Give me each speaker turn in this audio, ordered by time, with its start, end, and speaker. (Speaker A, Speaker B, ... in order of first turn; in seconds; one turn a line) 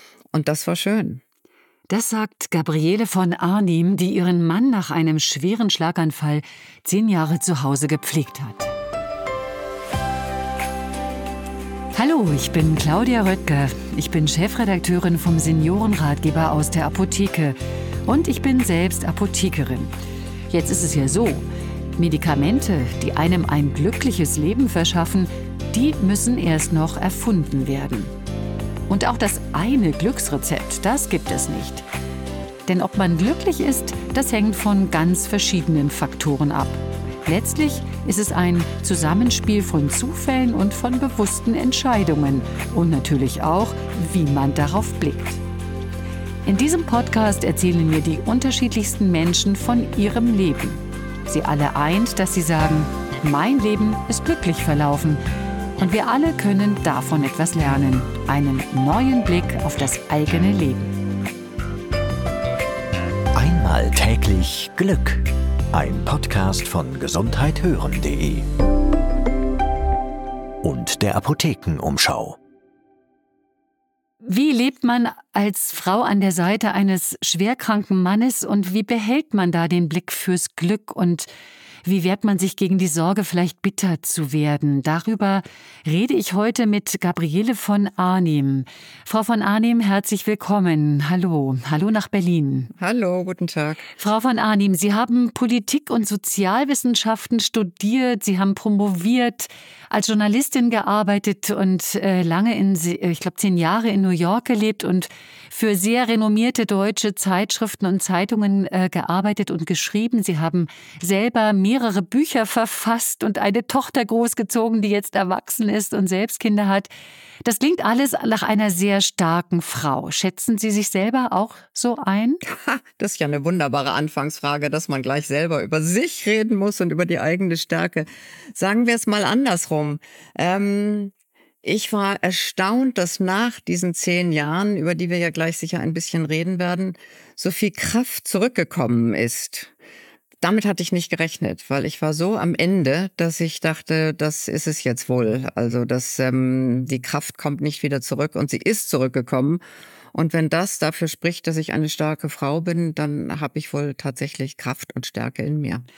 Speaker A: 0.3-1.2
Speaker B: 1.9-8.8
Speaker B: 11.9-19.9
Speaker B: 20.5-21.5
Speaker B: 22.0-28.1
Speaker B: 28.9-31.9
Speaker B: 32.7-45.4
Speaker B: 46.5-55.2
Speaker B: 55.8-60.9
Speaker C: 63.3-68.5
Speaker C: 70.6-72.4
Speaker B: 74.2-81.3
Speaker B: 81.8-92.7
Speaker A: 92.8-93.9
Speaker B: 94.0-116.9
Speaker B: 117.4-122.4
Speaker A: 122.4-131.1
Speaker A: 131.6-139.7
Speaker A: 140.4-149.6
Speaker A: 150.1-155.8